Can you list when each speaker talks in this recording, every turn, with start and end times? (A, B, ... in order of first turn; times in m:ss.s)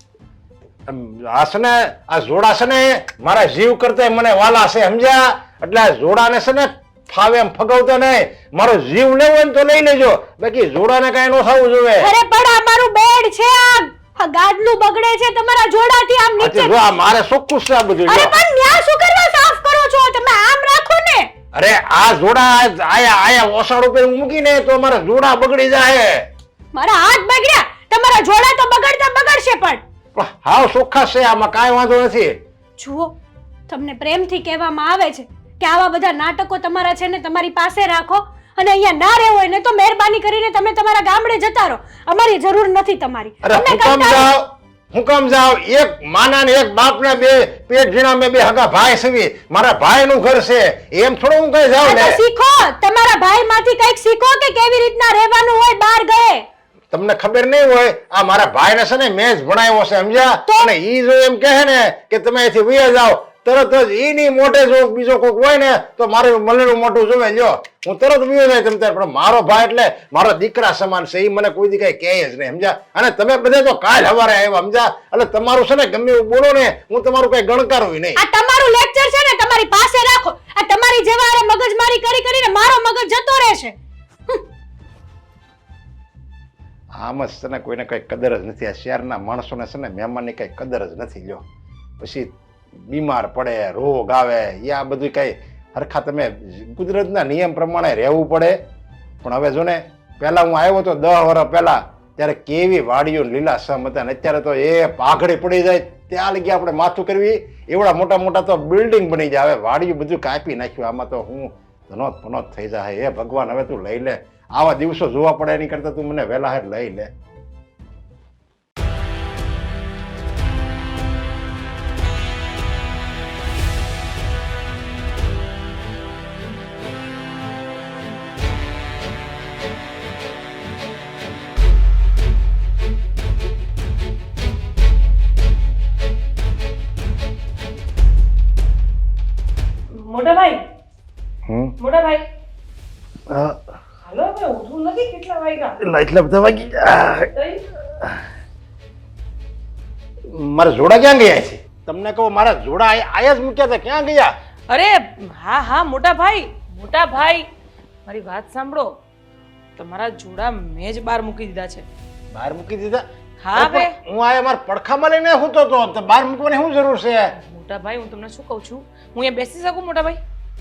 0:00.9-0:12.1 A
0:12.0-0:16.8 B
0:16.4-0:18.4 A
0:18.1-0:21.3 B
0:21.5-0:26.2 A
0:26.7-0:29.8 B
0:30.2-0:32.3 A
0:32.8-0:33.1 B
0:33.7-0:44.3 B
0:43.4-0:52.2 A
0:51.8-0:56.5 B
0:56.9-1:18.2 A
1:18.2-1:23.8 B
1:27.0-1:31.4 A
1:32.0-1:32.3 A
1:32.9-1:38.6 A
1:39.2-1:57.1 A
2:20.0-2:20.6 C
2:21.5-2:21.7 A
2:21.8-2:22.2 C
2:23.3-2:23.6 A
2:24.1-2:25.8 C
2:25.8-2:27.3 A
2:27.3-2:27.6 C
2:30.3-2:34.3 A
2:34.7-2:37.4 C
2:38.1-2:38.9 C
2:39.8-2:41.9 C
2:42.3-2:43.0 A
2:43.4-2:43.9 C
2:43.6-2:47.3 A
2:47.4-2:50.2 C